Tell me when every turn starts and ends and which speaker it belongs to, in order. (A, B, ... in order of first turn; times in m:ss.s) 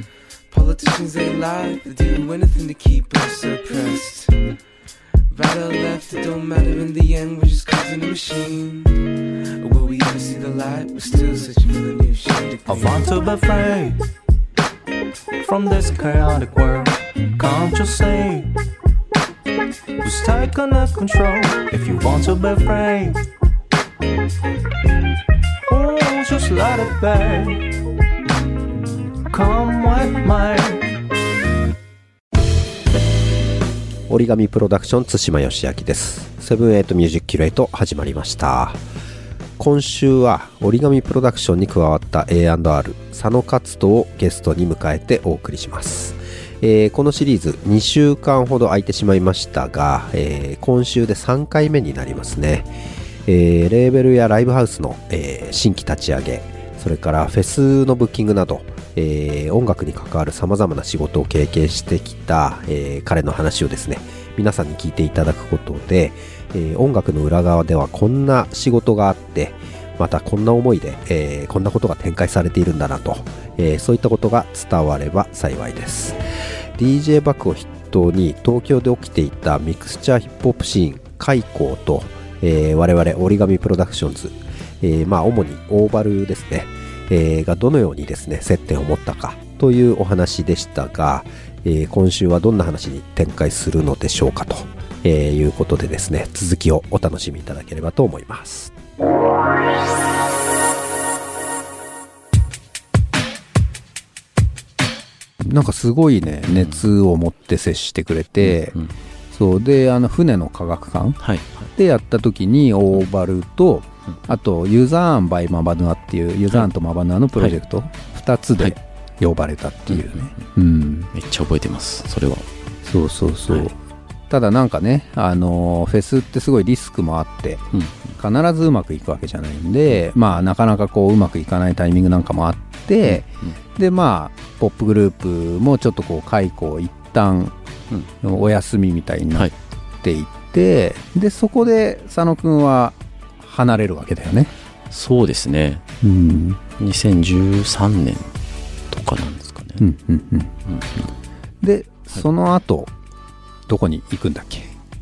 0:00.5-0:04.4 A
0:05.3-0:09.0 A
0:09.6-0:13.0 A
0:12.7-0:14.0 B
0:15.4-0:18.5 B
0:20.0-0:23.2 B
0:25.7-0:27.7 B
0:29.3-0:30.8 B
0:34.1-0:38.8 C
0:39.6-0:52.7 C
0:53.3-1:16.2 C
1:16.8-1:38.7 C
1:45.4-1:48.8 D
1:46.5-1:46.8 E
1:48.5-1:48.9 E
1:49.3-1:51.2 D
1:51.2-1:51.7 E
1:51.8-2:01.1 D
1:59.9-2:00.3 E
2:01.1-2:02.4 E
2:02.8-2:03.8 D
2:04.3-2:07.6 D
2:07.7-2:08.1 E
2:08.2-2:17.6 D
2:13.1-2:13.6 E
2:18.2-2:19.5 D
2:20.0-2:24.5 D
2:24.9-2:25.8 E
2:26.0-2:26.6 D
2:26.8-2:28.3 E
2:28.9-2:29.9 E
2:29.8-2:30.6 D
2:30.7-2:31.1 E
2:31.6-2:32.9 D
2:33.7-2:34.7 D